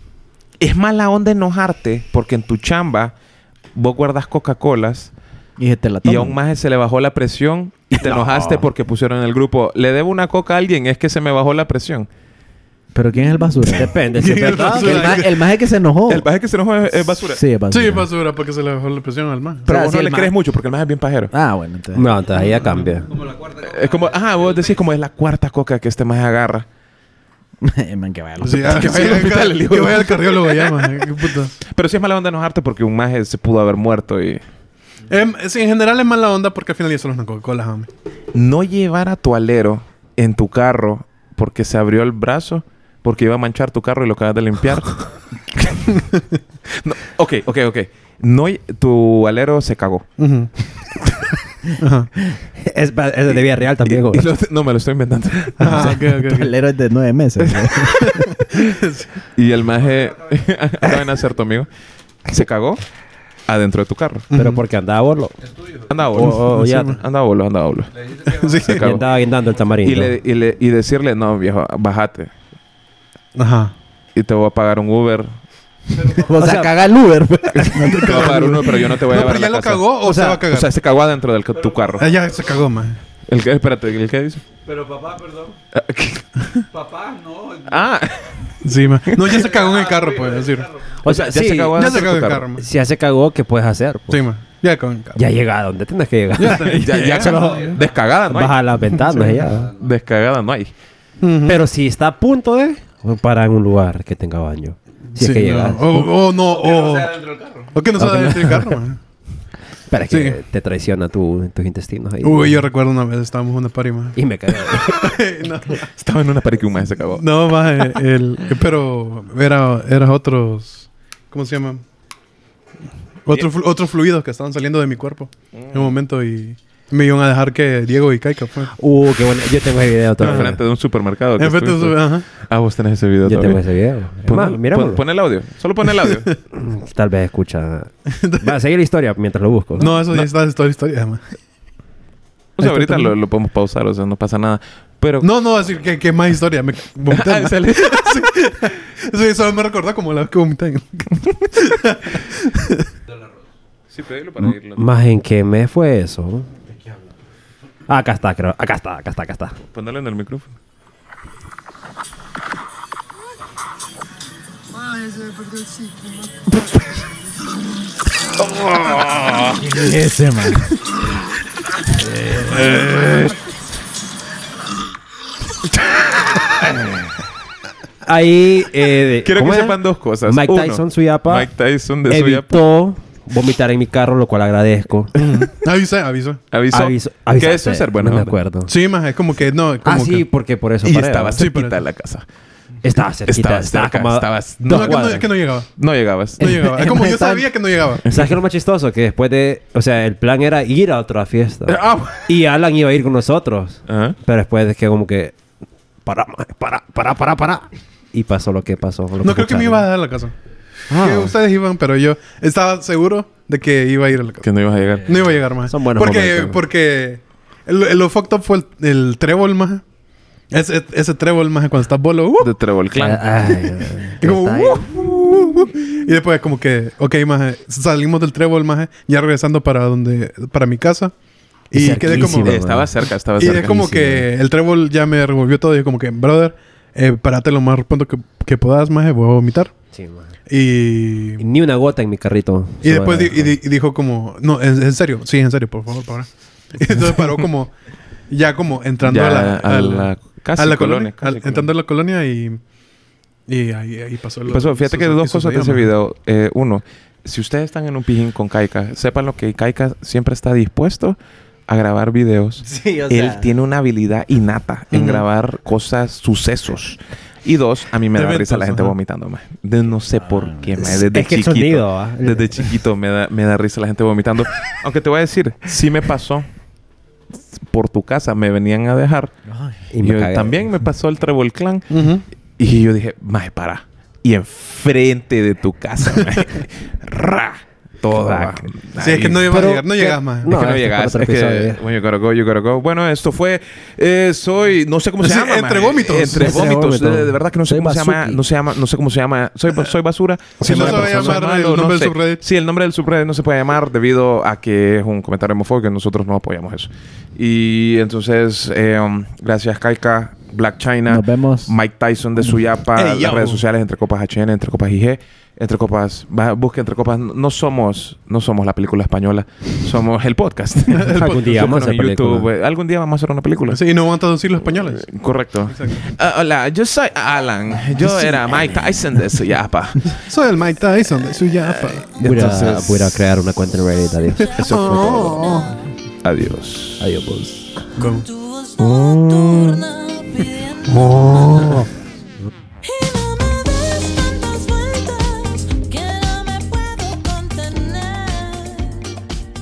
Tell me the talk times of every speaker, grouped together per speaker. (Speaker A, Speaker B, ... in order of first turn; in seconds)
Speaker A: 0.6-3.1, 3.7-5.1, 6.0-12.1, 16.1-17.4, 19.6-21.3, 23.4-26.6, 28.6-34.4, 38.3-45.0, 45.6-45.8, 46.7-50.1, 53.9-56.0, 57.4-57.9, 59.4-61.7, 62.3-62.8, 63.5-64.3, 65.9-69.1, 69.8-72.3, 74.1-75.4, 77.5-82.1, 83.3-84.5, 85.7-88.5, 89.1-89.5, 91.0-92.5, 96.4-98.6, 99.7-100.7, 115.9-117.3, 125.5-126.0, 130.2-133.6, 134.2-136.3, 142.6-145.3, 147.1-148.3, 153.9-154.8, 159.7-160.5, 168.8-169.4, 179.2-182.6, 186.5-188.3, 190.8-192.2, 193.3-196.6, 201.7-202.3, 203.9-204.2, 210.9-211.2, 214.4-215.4, 222.4-223.2, 232.1-234.3, 249.0-251.7, 254.5-261.1, 261.7-276.5, 277.5-279.3, 280.0-281.9, 282.6-289.6, 290.4-323.8, 324.8-330.2, 331.5-333.2, 334.6-335.6, 336.2-337.0, 338.8-339.8
Speaker B: 5.6-6.4, 8.0-8.6, 12.9-13.9, 14.6-16.3, 17.3-18.1, 19.7-20.3, 21.3-22.1, 27.6-29.0, 55.6-58.3, 76.0-78.9, 169.5-170.7, 172.3-172.6, 196.4-197.5, 262.6-263.5, 270.2-270.9, 279.4-279.8, 297.7-298.4, 311.1-311.7
Speaker C: 13.6-15.2, 21.9-23.2, 52.6-54.2, 64.3-65.3, 66.1-67.0, 68.7-70.2, 76.2-76.7, 80.0-80.4, 91.0-91.8, 92.6-94.2, 95.1-99.7, 101.5-106.1, 108.0-108.6, 109.9-112.6, 114.1-115.1, 128.8-130.6, 133.2-135.0, 136.5-140.0, 154.4-156.5, 157.9-159.6, 178.0-181.5, 182.1-185.1, 186.7-188.7, 189.8-191.4, 192.8-195.3, 198.1-205.3, 206.0-209.9, 215.7-216.6, 222.9-224.9, 231.7-232.9, 239.9-240.3, 241.4-243.5, 270.8-272.7, 279.9-280.7, 288.1-288.7, 289.5-291.8, 296.3-297.4, 300.6-301.4, 320.9-322.5, 332.2-335.6, 337.0-337.7
Speaker D: 14.1-15.5, 17.7-19.6, 28.4-31.5, 35.1-37.9, 50.2-50.5, 51.8-52.1, 55.6-56.5, 57.9-59.1, 64.3-64.6, 66.2-67.0, 68.2-68.9, 73.3-73.7, 78.0-80.7, 82.0-83.0, 88.6-90.7, 91.7-92.7, 94.1-95.2, 96.4-97.7, 98.9-99.5, 101.2-101.6, 105.2-109.0, 110.1-110.4, 112.2-115.9, 117.2-121.8, 123.2-128.7, 130.2-130.5, 131.4-132.2, 138.1-138.5, 139.8-141.2, 142.6-143.1, 145.2-152.9, 172.7-173.1, 185.2-186.4, 188.7-190.2, 191.3-191.8, 194.6-195.7, 196.4-198.0, 209.2-210.3, 210.9-214.5, 215.1-219.8, 220.5-222.5, 224.2-231.1, 231.7-232.6, 233.4-239.8, 240.5-241.4, 242.8-247.7, 248.3-252.6, 253.5-255.9, 264.9-265.2, 268.1-268.9, 281.9-282.2, 289.0-290.5, 295.2-296.7, 300.6-302.4, 312.9-313.6, 323.7-325.1, 325.7-326.0, 328.0-328.4, 330.2-332.1, 334.9-335.5, 338.0-338.3, 340.9-341.9
Speaker E: 334.3-335.9, 338.0-341.6, 342.8-349.1